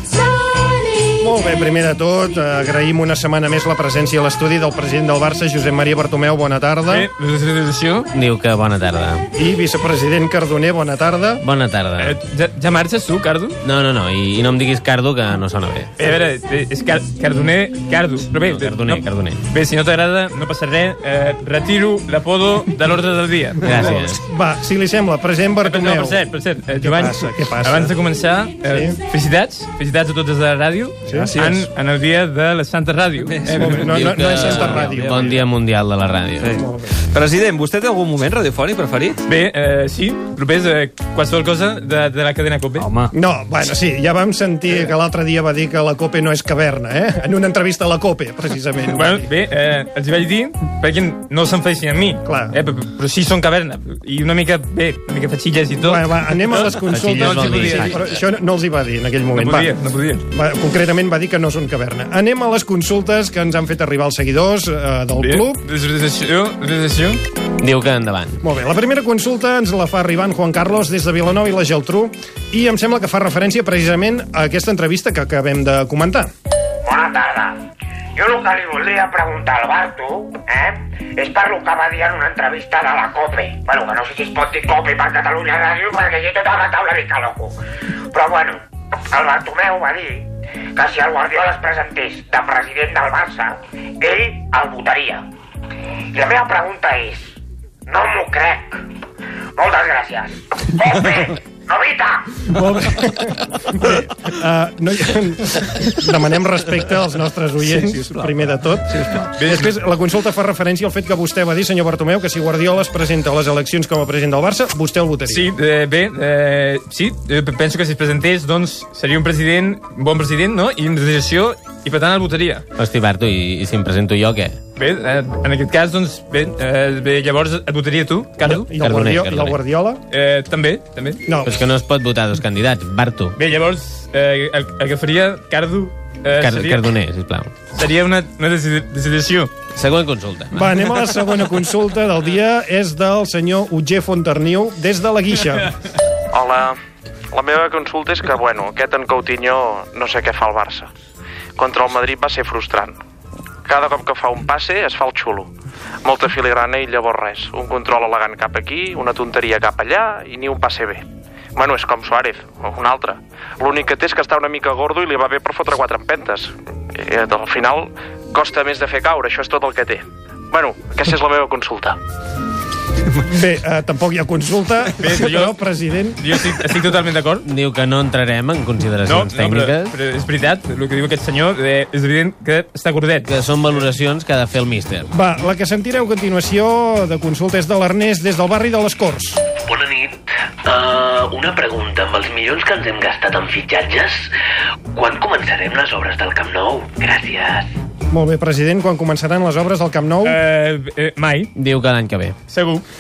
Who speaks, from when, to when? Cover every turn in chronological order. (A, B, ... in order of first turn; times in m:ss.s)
0:01.2-0:07.1 A
0:06.9-0:08.1 B
0:08.1-0:09.3 C
0:09.4-0:11.4 A
0:11.4-0:12.2 C
0:12.0-0:13.6 B
0:13.6-0:15.9 C
0:16.0-0:24.0 B
0:18.4-0:19.4 C
0:23.6-0:24.2 C
0:23.7-0:26.2 A
0:25.6-0:33.8 B
0:26.8-0:28.0 A
0:28.7-0:29.0 A
0:31.1-0:31.4 A
0:31.1-0:31.7 D
0:33.2-0:35.4 D
0:33.6-0:35.4 A
0:33.8-0:36.5 C
0:36.4-0:39.2 D
0:36.6-0:36.9 A
0:39.2-0:42.9 B
0:42.8-0:43.1 D
0:43.1-0:49.3 A
0:48.9-0:58.1 B
0:52.2-0:52.6 A
0:55.8-0:59.7 A
0:56.9-0:58.0 C
0:59.4-1:00.2 B
1:00.3-1:05.6 A
1:05.2-1:07.2 B
1:07.6-1:08.4 C
1:08.4-1:16.3 A
1:16.8-1:17.6 E
1:18.2-1:27.5 E
1:28.1-1:35.2 E
1:36.1-1:37.4 E
1:37.9-1:38.8 E
1:39.6-1:42.4 E
1:42.5-1:55.5 A
1:47.7-1:48.3 D
1:49.4-1:49.7 B
1:55.3-2:02.6 B
2:02.8-2:04.6 C
2:04.8-2:08.7 B
2:08.4-2:10.0 A
2:08.8-2:09.6 C
2:10.1-2:11.2 B
2:11.3-2:11.6 A
2:11.4-2:13.4 C
2:13.4-2:16.9 B
2:16.4-2:17.5 C
2:17.7-2:19.5 B
2:19.8-2:20.7 C
2:20.5-2:25.7 A
2:26.3-2:26.8 F
2:27.3-2:30.9 F
2:31.6-2:33.0 F
2:33.7-2:35.5 F
2:36.0-2:41.0 F
2:41.6-2:52.0 F
2:53.2-2:56.4 A
2:55.0-2:55.6 B
2:56.2-2:57.4 B
2:57.4-2:59.9 C
2:59.1-3:03.3 B
3:03.3-3:05.1 C
3:05.1-3:09.4 A
3:09.6-3:14.3 G
3:14.9-3:17.7 G
3:18.1-3:20.4 A
3:20.2-3:21.5 B
3:21.6-3:22.4 C
3:22.5-3:22.8 B